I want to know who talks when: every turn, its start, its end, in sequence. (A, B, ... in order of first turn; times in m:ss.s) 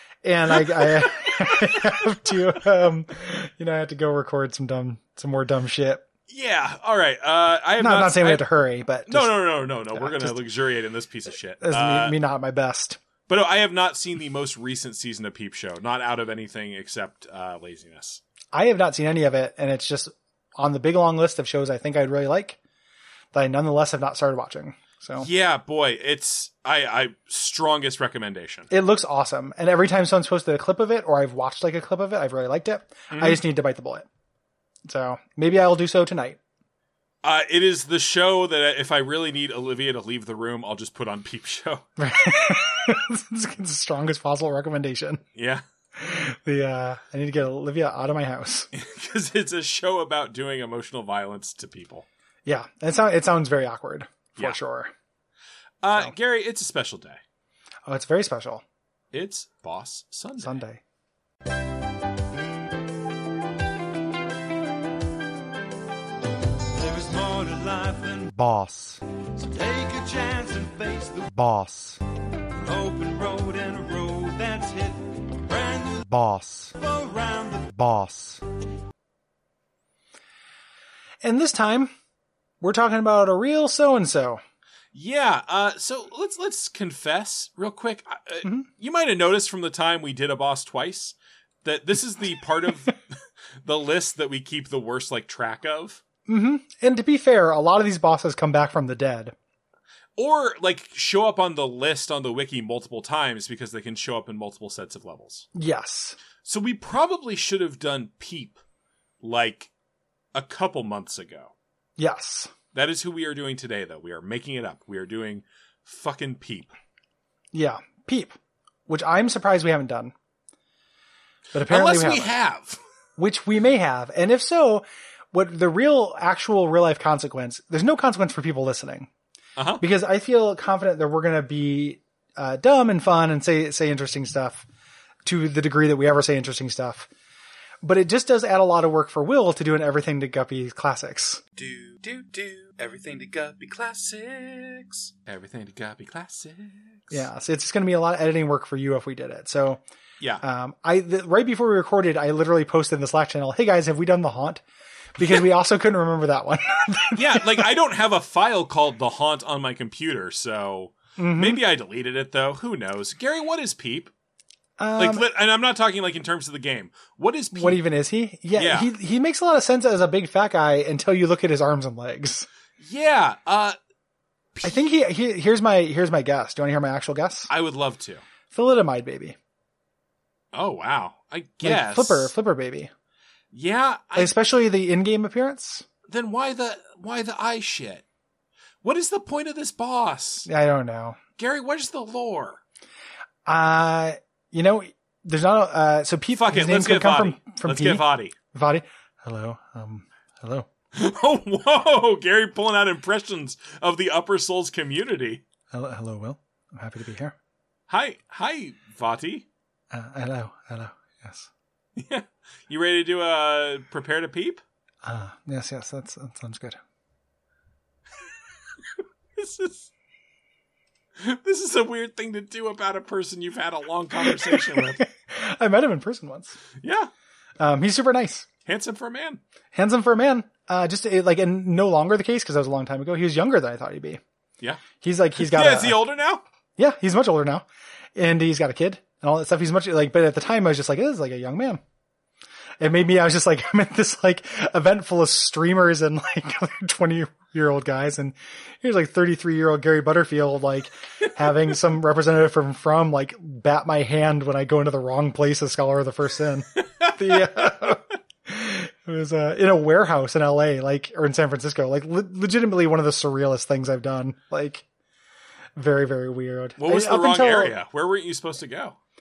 0:00.2-0:06.0 A
0:06.3-0:08.4 B
0:07.8-0:10.4 A
0:09.1-0:12.2 B
0:11.6-0:13.0 A
0:13.3-0:18.2 B
0:18.5-0:22.6 A
0:23.3-0:25.3 A
0:25.2-0:28.7 B
0:28.7-0:34.1 A
0:33.1-0:33.4 B
0:34.8-0:36.4 A
0:37.2-0:41.8 B
0:42.0-0:45.2 A
0:45.4-0:45.6 B
0:46.0-0:48.7 A
0:48.7-0:52.1 B
0:52.5-0:54.9 A
0:55.8-0:57.2 B
0:57.9-0:58.6 A
0:59.1-1:00.6 B
1:00.4-1:00.8 A
1:06.8-1:08.4 C
1:08.4-1:08.9 D
1:09.4-1:11.2 C
1:11.2-1:12.0 D
1:12.7-1:16.0 C
1:16.1-1:16.7 D
1:16.6-1:17.8 C
1:17.8-1:18.4 D
1:21.2-1:21.9 A
1:22.6-1:24.4 A
1:24.9-1:33.0 B
1:33.6-1:36.0 B
1:36.3-1:39.3 A
1:40.2-1:45.5 B
1:45.6-1:46.2 A
1:46.4-1:48.6 B
1:49.2-1:49.7 B
1:50.4-1:51.5 B
1:52.0-1:52.5 A
1:52.7-1:56.7 B
1:57.5-1:58.4 A
1:58.9-2:00.1 A
2:01.5-2:02.3 A
2:01.7-2:02.8 B
2:03.2-2:09.1 A
2:09.6-2:09.8 B
2:09.8-2:14.7 A
2:15.2-2:17.1 A
2:17.8-2:21.4 A
2:21.6-2:27.3 B
2:27.1-2:29.8 A
2:30.4-2:34.6 A
2:35.2-2:37.7 A
2:37.2-2:44.1 B
2:41.2-2:41.6 A
2:44.8-2:45.2 A
2:45.0-2:47.8 B
2:47.5-2:52.5 A
2:48.6-2:48.9 B
2:52.8-2:53.8 B
2:54.6-2:54.9 B
2:54.6-2:57.5 A
2:57.5-2:58.2 B
2:58.5-2:59.4 A
3:00.5-3:02.3 B
3:01.6-3:02.9 A
3:03.5-3:04.4 B
3:04.2-3:05.9 A
3:06.1-3:08.0 B
3:08.8-3:10.5 B
3:10.5-3:11.2 A
3:11.4-3:12.6 B
3:13.5-3:20.7 A
3:16.3-3:18.3 B
3:20.9-3:25.4 B
3:25.7-3:27.4 A
3:27.9-3:29.5 B
3:29.9-3:31.5 A
3:32.0-3:34.6 B
3:35.0-3:36.8 A
3:39.4-3:39.9 B
3:41.2-3:45.1 B
3:44.3-3:46.6 A
3:46.8-3:47.1 B
3:47.6-3:48.5 A
3:48.7-3:49.4 B
3:49.7-3:54.2 A
3:55.0-3:56.1 A
3:55.4-3:56.4 B
3:56.8-3:57.6 A
3:58.2-4:01.8 A
4:02.8-4:24.8 A
4:25.8-4:27.8 A
4:26.8-4:29.0 B